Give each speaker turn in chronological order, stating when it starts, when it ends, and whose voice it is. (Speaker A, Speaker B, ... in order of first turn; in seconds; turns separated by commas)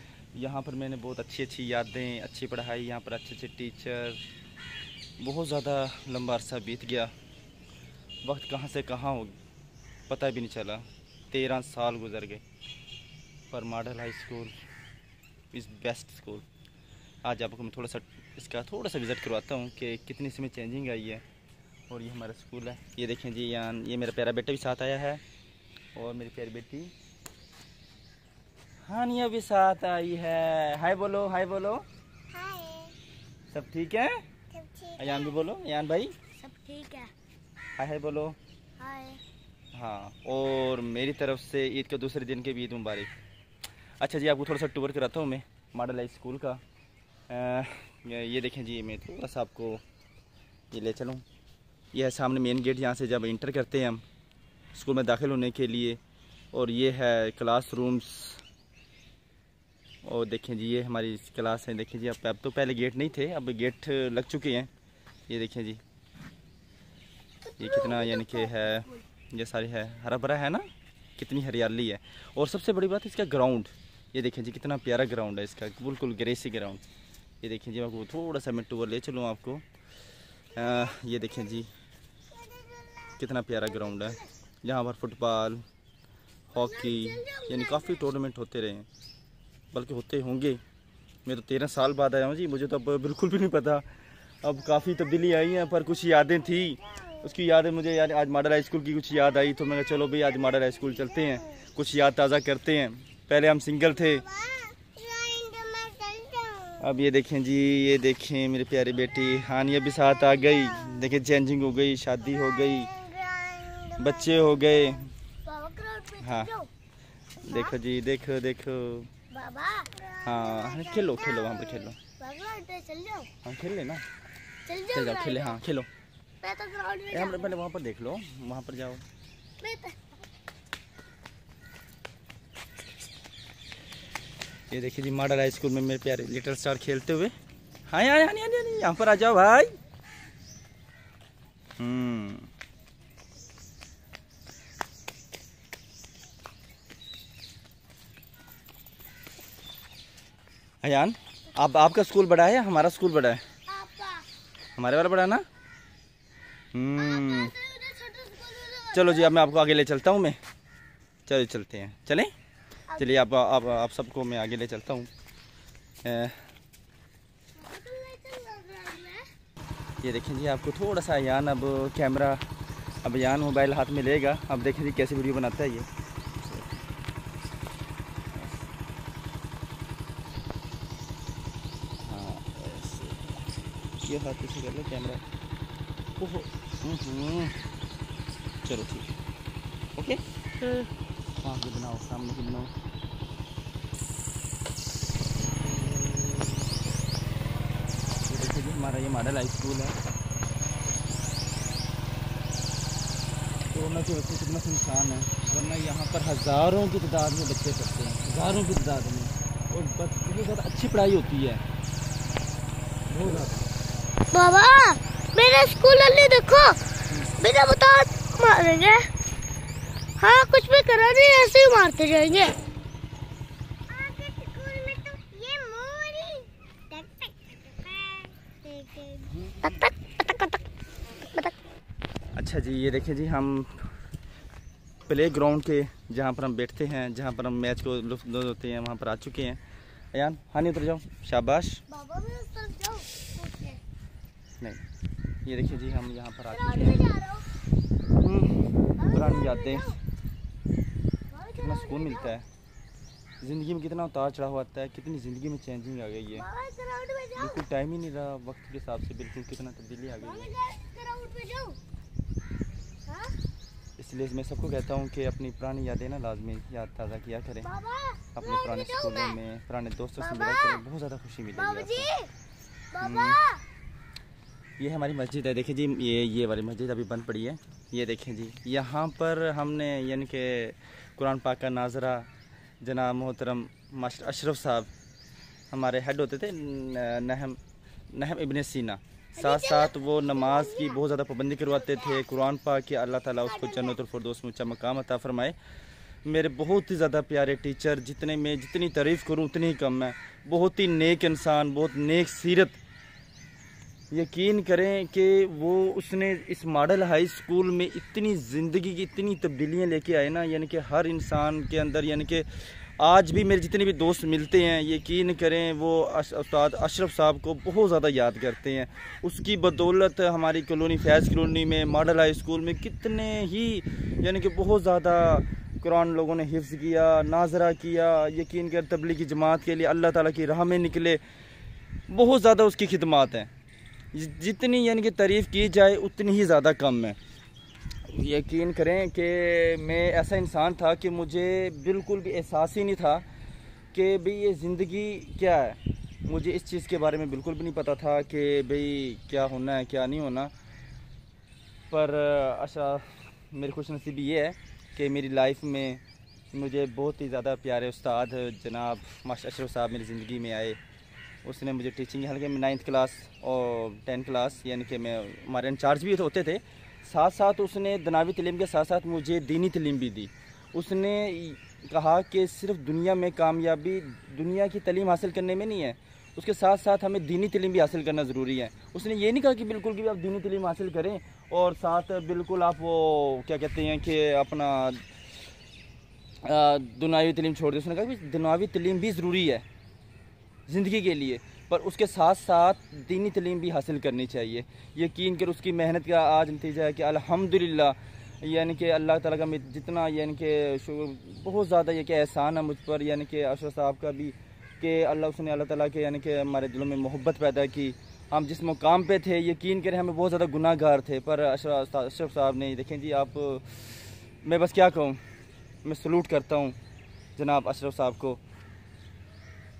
Speaker A: 0.3-4.2, Speaker A: 5.2-7.1, Speaker A: 8.2-9.3, Speaker A: 10.1-12.4, Speaker A: 13.5-14.5, Speaker A: 15.5-16.4, Speaker A: 17.2-21.2, Speaker A: 21.9-25.2, Speaker A: 25.9-26.9, Speaker A: 28.9-31.9, Speaker B: 32.3-33.0, Speaker A: 33.5-34.2, Speaker B: 34.5-35.4, Speaker A: 35.0-36.1, Speaker B: 36.4-37.1, Speaker A: 37.8-38.4, Speaker B: 38.8-39.2, Speaker A: 39.7-43.1, Speaker A: 44.0-46.6, Speaker A: 47.3-49.8, Speaker A: 50.7-51.2, Speaker A: 51.9-54.0, Speaker A: 54.7-56.0, Speaker A: 56.5-58.4, Speaker A: 60.0-64.7, Speaker A: 65.3-65.8, Speaker B: 67.4-69.0, Speaker A: 67.6-76.8, Speaker A: 77.4-79.7, Speaker A: 80.5-81.7, Speaker B: 82.4-83.2, Speaker A: 83.2-85.6, Speaker B: 83.9-84.2, Speaker A: 86.5-88.9, Speaker B: 86.5-88.0, Speaker A: 89.7-90.6, Speaker A: 91.2-93.8, Speaker A: 94.4-104.3, Speaker B: 104.2-106.8, Speaker A: 106.8-112.9, Speaker B: 110.3-110.9, Speaker B: 112.5-114.9, Speaker A: 114.0-115.1, Speaker B: 115.5-116.7, Speaker A: 116.2-116.5, Speaker A: 117.4-119.1, Speaker B: 117.5-117.8, Speaker B: 119.3-123.3, Speaker A: 120.2-122.0, Speaker A: 123.4-124.0, Speaker B: 124.7-125.6, Speaker A: 124.9-125.9, Speaker B: 126.4-127.6, Speaker A: 127.1-129.0, Speaker B: 129.6-130.0, Speaker A: 134.7-137.3, Speaker A: 137.9-139.7, Speaker A: 141.8-142.5, Speaker A: 150.8-153.4, Speaker B: 153.7-154.3, Speaker A: 154.8-155.4, Speaker A: 156.7-157.5, Speaker B: 157.0-159.3, Speaker A: 158.9-160.4, Speaker A: 161.3-162.3, Speaker A: 163.0-165.1, Speaker A: 166.0-166.4, Speaker B: 167.6-169.3, Speaker A: 170.0-172.4, Speaker A: 173.0-175.9, Speaker A: 176.4-176.8, Speaker A: 182.0-183.5, Speaker A: 184.0-185.2, Speaker A: 186.2-187.6, Speaker A: 188.6-189.1, Speaker A: 190.0-190.9, Speaker A: 191.4-192.7, Speaker A: 195.6-196.7, Speaker A: 198.3-200.0, Speaker A: 203.7-211.6, Speaker A: 213.1-213.7, Speaker B: 214.3-216.8, Speaker B: 217.4-219.1, Speaker B: 220.2-222.6, Speaker B: 223.9-230.6, Speaker B: 231.2-231.5, Speaker A: 232.3-233.9, Speaker A: 235.1-239.6, Speaker A: 240.1-241.8, Speaker B: 241.9-243.8, Speaker A: 245.4-247.0, Speaker B: 246.5-247.5, Speaker A: 248.2-249.9, Speaker B: 249.0-250.0, Speaker B: 251.3-252.3, Speaker A: 251.6-252.5, Speaker A: 253.4-256.4, Speaker B: 256.3-257.6, Speaker A: 257.4-260.5, Speaker B: 260.2-261.8, Speaker B: 263.1-263.4, Speaker A: 264.0-267.7, Speaker B: 267.6-269.4, Speaker A: 268.4-272.1, Speaker B: 270.2-270.8, Speaker B: 271.5-272.3, Speaker B: 272.9-273.6, Speaker A: 273.0-273.4, Speaker A: 274.8-282.3, Speaker A: 282.8-284.9, Speaker A: 285.7-287.6, Speaker A: 288.1-295.6, Speaker B: 289.4-291.0, Speaker B: 293.5-294.0, Speaker A: 296.2-302.8, Speaker A: 304.1-312.5, Speaker A: 313.0-331.2, Speaker A: 332.1-333.5, Speaker A: 334.1-337.2, Speaker A: 338.1-343.2, Speaker A: 343.9-350.5, Speaker A: 351.9-356.0, Speaker A: 356.5-360.8, Speaker A: 361.4-385.1, Speaker A: 386.4-389.6, Speaker A: 390.7-415.2, Speaker A: 415.9-416.8, Speaker A: 417.4-418.4